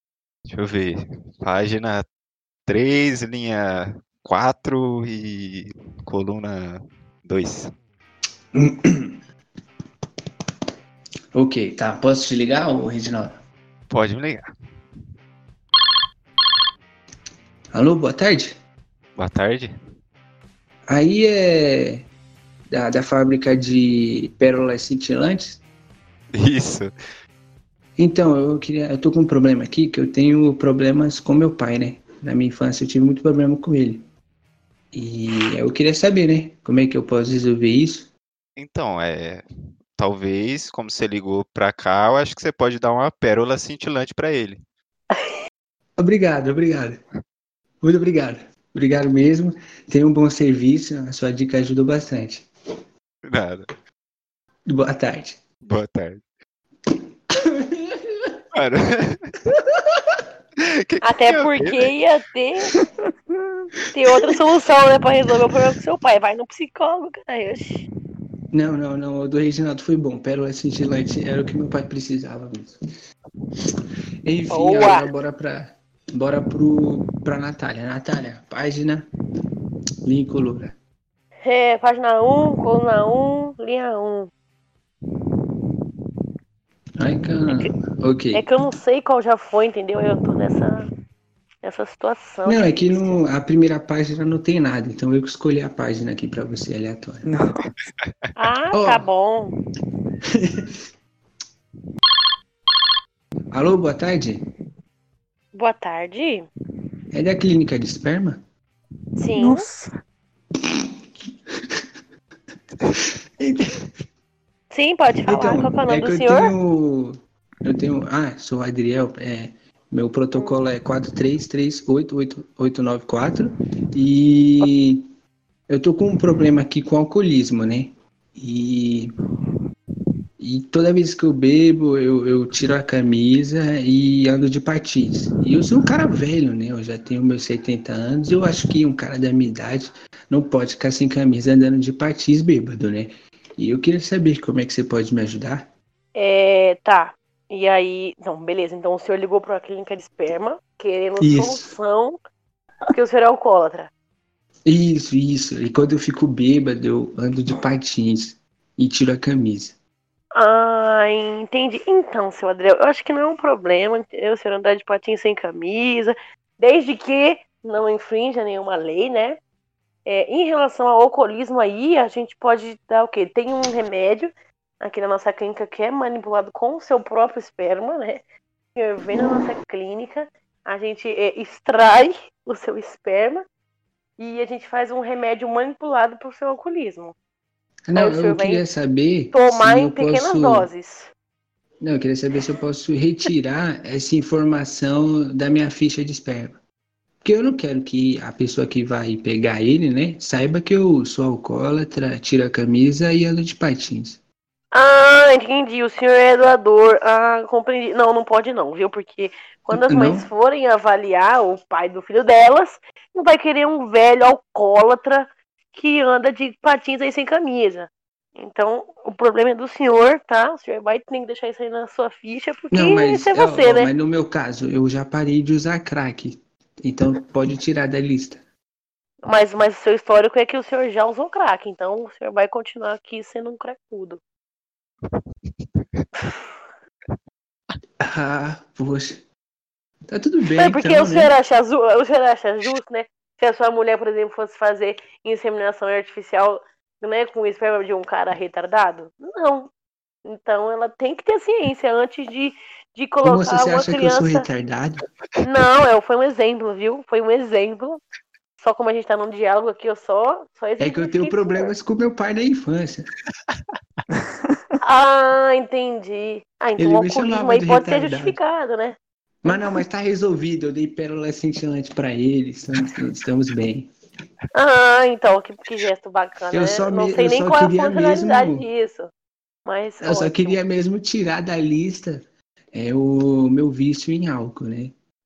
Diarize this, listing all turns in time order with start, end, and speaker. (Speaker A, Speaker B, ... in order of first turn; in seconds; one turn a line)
Speaker A: 0.5-2.0
Speaker A: 2.7-7.7
Speaker B: 8.5-9.2
Speaker B: 11.3-13.4
Speaker A: 13.9-14.5
Speaker B: 17.7-18.6
Speaker A: 19.2-19.7
Speaker B: 20.9-22.1
Speaker B: 22.7-25.6
Speaker A: 26.3-26.9
Speaker B: 28.0-34.0
Speaker B: 34.9-38.1
Speaker A: 38.6-44.6
Speaker B: 46.0-47.0
Speaker B: 47.8-52.5
Speaker A: 53.2-53.7
Speaker B: 54.6-55.4
Speaker A: 55.6-56.2
Speaker B: 56.9-58.4
Speaker A: 58.5-59.4
Speaker B: 59.5-60.2
Speaker A: 60.6-62.0
Speaker C: 61.0-62.7
Speaker D: 62.7-63.7
Speaker C: 63.9-67.8
Speaker B: 68.5-72.8
Speaker B: 74.2-79.1
Speaker C: 74.5-75.1
Speaker B: 80.0-80.7
Speaker C: 81.4-84.3
Speaker B: 87.0-88.4
Speaker C: 88.3-90.9
Speaker C: 91.6-93.2
Speaker B: 92.4-97.3
Speaker D: 97.2-97.9
Speaker C: 98.3-99.5
Speaker B: 98.7-99.0
Speaker B: 100.3-100.7
Speaker B: 103.5-104.4
Speaker C: 105.5-106.5
Speaker B: 107.1-108.4
Speaker C: 109.2-109.7
Speaker D: 109.3-110.0
Speaker B: 110.5-110.9
Speaker B: 111.5-111.8
Speaker B: 112.8-113.9
Speaker C: 114.7-116.5
Speaker B: 115.2-125.1
Speaker C: 120.3-120.6
Speaker B: 125.7-129.1
Speaker B: 130.4-145.7
Speaker C: 146.1-152.2
Speaker B: 151.2-151.7
Speaker C: 152.9-153.9
Speaker B: 154.7-159.8
Speaker C: 160.3-169.4
Speaker C: 170.1-178.2
Speaker C: 178.8-183.4
Speaker C: 184.2-187.1
Speaker B: 187.9-190.7
Speaker C: 187.9-188.6
Speaker C: 189.3-191.1
Speaker B: 191.8-196.6
Speaker B: 197.2-204.2
Speaker C: 204.7-223.9
Speaker B: 209.7-210.3
Speaker B: 222.7-228.4
Speaker C: 229.2-234.2
Speaker B: 238.0-239.2
Speaker B: 240.1-241.3
Speaker C: 240.6-249.7
Speaker C: 250.2-254.5
Speaker B: 253.2-255.0
Speaker C: 255.4-258.0
Speaker C: 258.6-261.7
Speaker B: 260.8-263.1
Speaker D: 264.1-264.8
Speaker C: 264.8-269.7
Speaker B: 266.8-268.4
Speaker B: 269.4-273.9
Speaker C: 274.5-279.1
Speaker B: 276.5-278.6
Speaker C: 279.6-280.6
Speaker B: 280.0-284.9